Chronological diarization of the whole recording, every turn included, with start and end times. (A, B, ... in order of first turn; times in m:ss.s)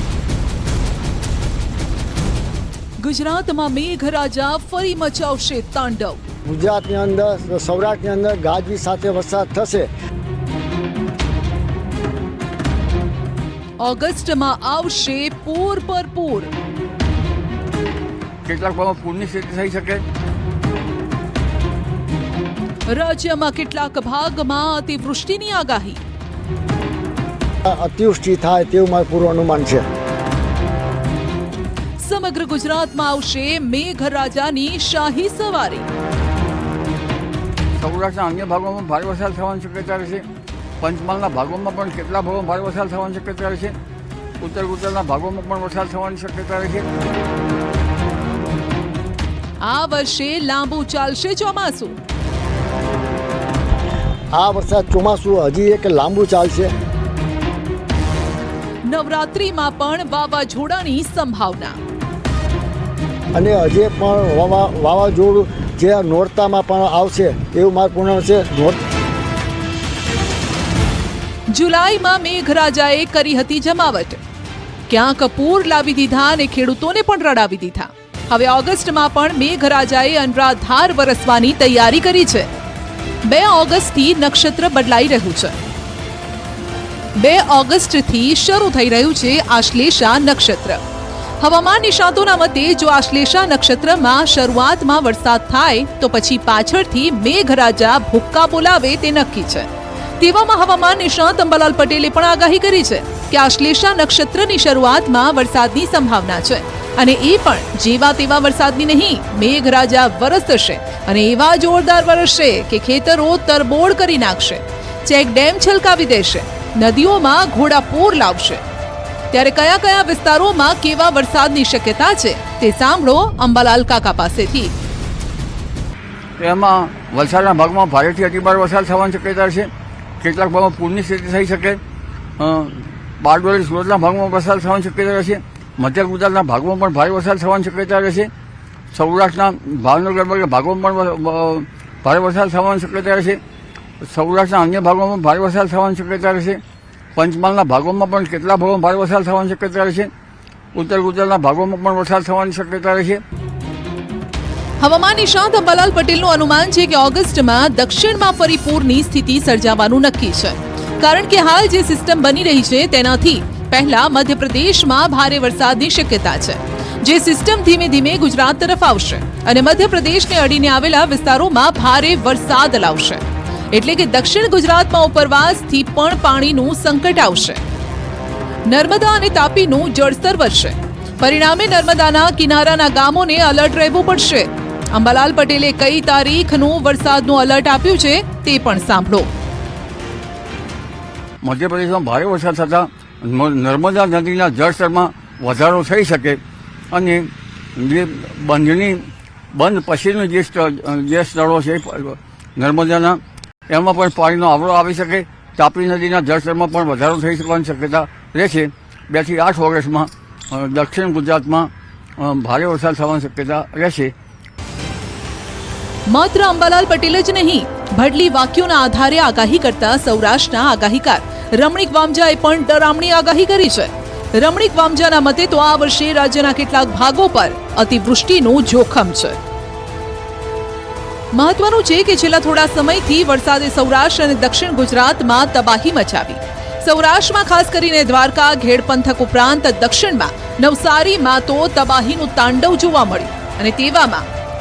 0:03.0-0:06.2 A
0:06.4-0:09.9 B
0:13.8-0:16.5 A
0:18.4-0:20.0 C
0:22.9-0:26.0 A
0:27.6-0:29.8 B
0:32.0-0:35.9 A
0:37.8-0:40.2 C
0:40.8-0:43.7 C
0:44.4-0:46.8 C
0:49.6-0:52.0 A
0:54.3-0:56.7 B
0:58.9-1:01.8 A
1:03.3-1:08.8 B
1:11.5-1:14.2 A
1:14.9-1:22.5 A
1:23.2-1:25.6 A
1:27.2-1:30.8 A
1:31.4-1:39.7 A
1:40.2-1:58.6 A
1:59.3-2:04.7 A
2:06.4-2:09.7 C
2:10.2-2:11.8 C
2:12.4-2:18.3 C
2:18.9-2:23.4 C
2:24.0-2:26.6 C
2:27.2-2:30.1 C
2:30.7-2:33.2 C
2:34.8-2:57.6 A
2:58.7-3:09.3 A
3:11.4-3:16.4 C
3:16.9-3:34.1 C
3:36.1-3:49.4 A
3:51.3-4:04.2 A